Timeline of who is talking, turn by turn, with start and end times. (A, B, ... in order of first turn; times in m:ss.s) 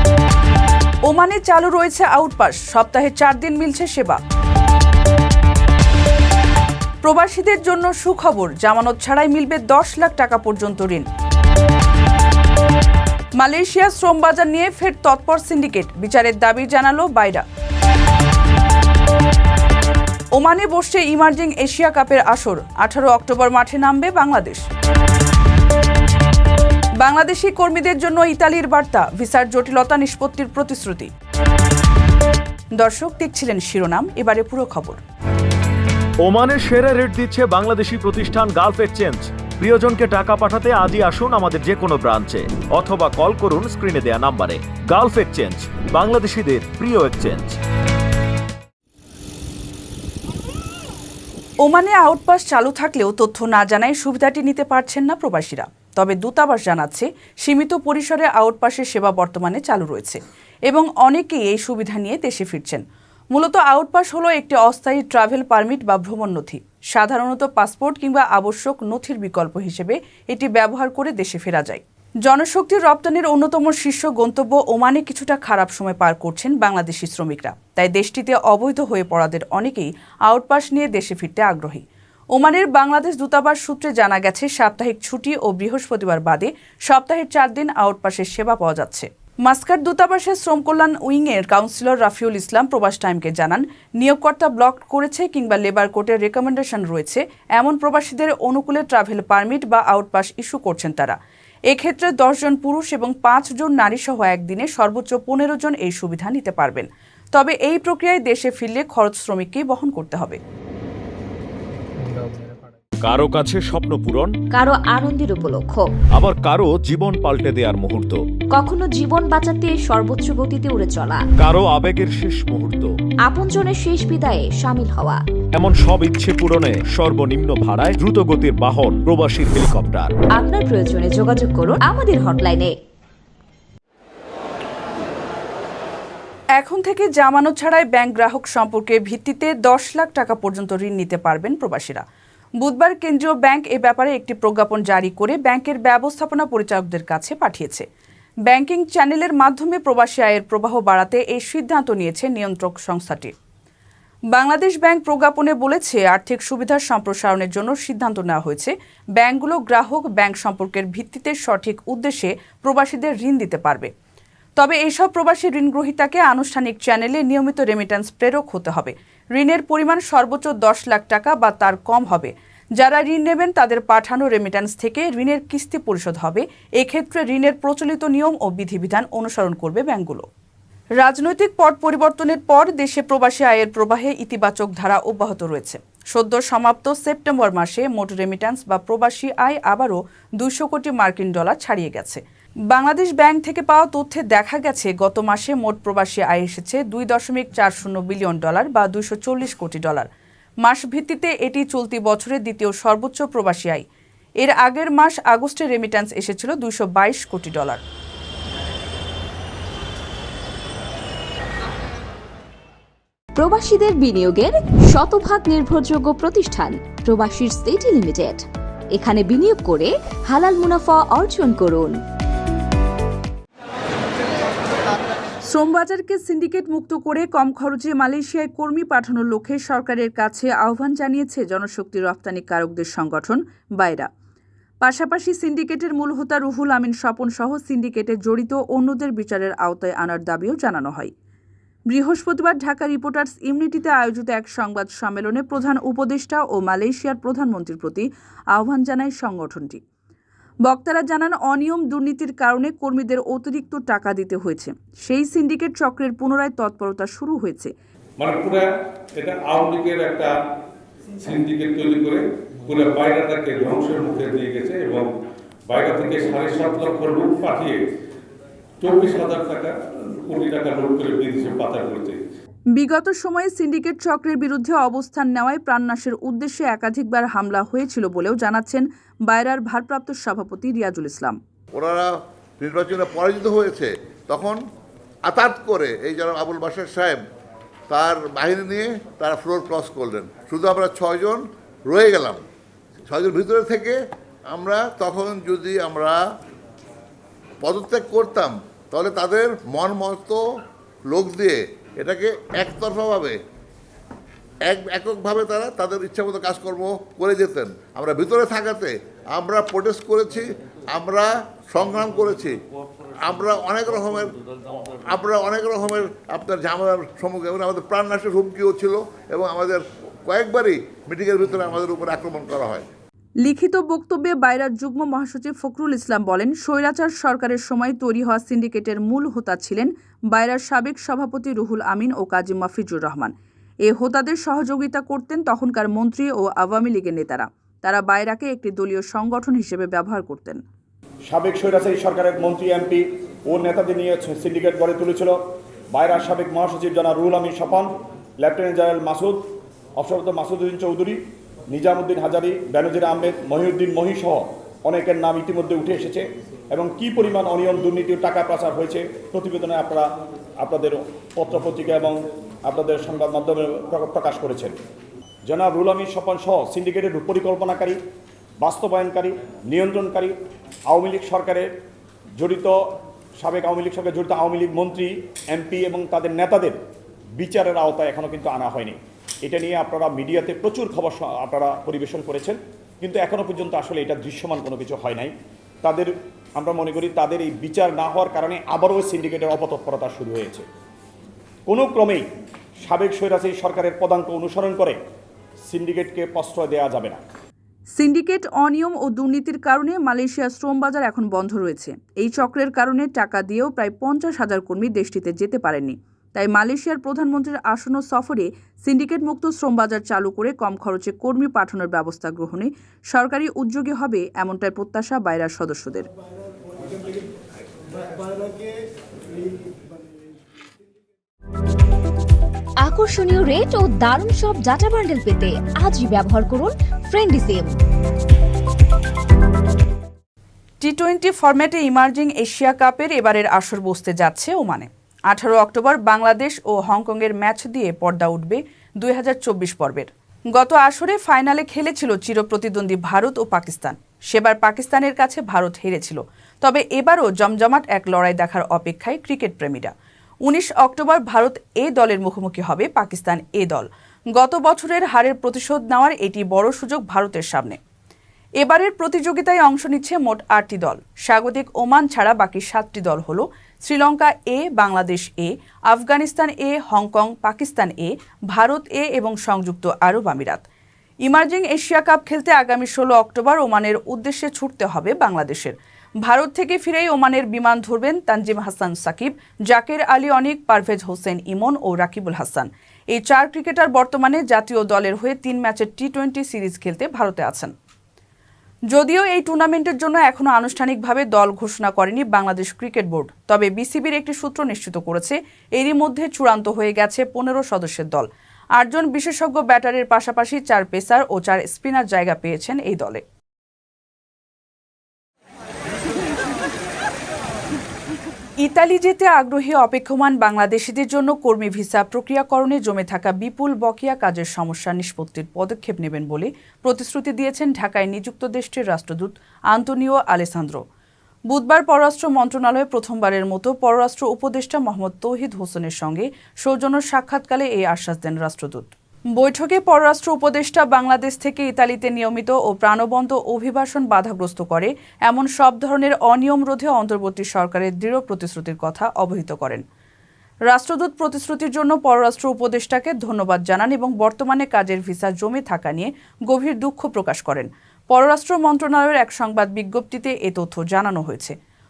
0:01.1-0:04.2 A
0:07.0-0:11.1 A
0:13.4-0:17.5 A
0:20.3-0:24.6 A
0:27.0-0:31.1 A
0:32.8-0:35.0 A
0:36.2-0:47.6 B
0:51.6-1:41.2 A
1:41.7-1:50.4 A
1:53.0-1:54.4 B
1:54.5-1:55.9 C
1:56.1-1:58.2 B
1:58.5-2:01.2 C
2:01.4-2:02.9 B
2:03.3-2:05.2 C
2:05.6-2:10.1 B
2:10.4-2:12.7 C
2:16.6-2:22.0 A
2:22.6-2:27.8 A
2:28.5-2:33.3 A
2:34.3-2:43.9 A
2:44.6-3:00.3 A
3:01.0-3:20.1 A
3:20.6-3:23.9 A
3:24.4-3:27.8 A
3:33.4-3:42.0 C
3:45.5-3:54.1 A
3:54.8-4:01.1 A
4:01.9-4:09.8 A
4:10.7-4:17.7 A
4:18.2-4:20.3 D
4:21.2-4:25.1 D
4:25.7-4:27.8 D
4:28.8-4:32.2 D
4:32.8-4:41.4 A
4:41.7-4:44.6 E
4:45.3-4:47.2 E
4:47.9-4:52.5 E
4:53.1-4:56.2 E
4:57.6-5:00.4 E
5:01.1-5:03.4 E
5:04.6-5:12.6 E
5:13.2-5:14.4 E
5:15.0-5:22.9 E
5:23.4-5:33.3 A
5:33.9-5:40.6 A
5:41.3-5:45.4 F
5:45.9-6:04.8 F
6:05.5-6:08.0 F
6:08.6-6:10.4 F
6:10.9-6:11.7 F
6:12.4-6:12.8 F
6:13.4-6:16.8 F
6:17.4-6:30.7 F
6:31.7-6:32.3 F
6:32.8-6:35.0 F
6:35.7-6:37.2 F
6:38.0-6:56.1 A
7:02.8-7:07.8 C
7:10.8-7:29.9 A
7:30.4-7:37.8 A
7:38.6-7:50.6 A
7:51.3-8:07.7 A
8:08.9-8:23.2 A
8:28.6-8:40.8 A
8:41.5-8:59.8 A
9:00.7-9:11.6 A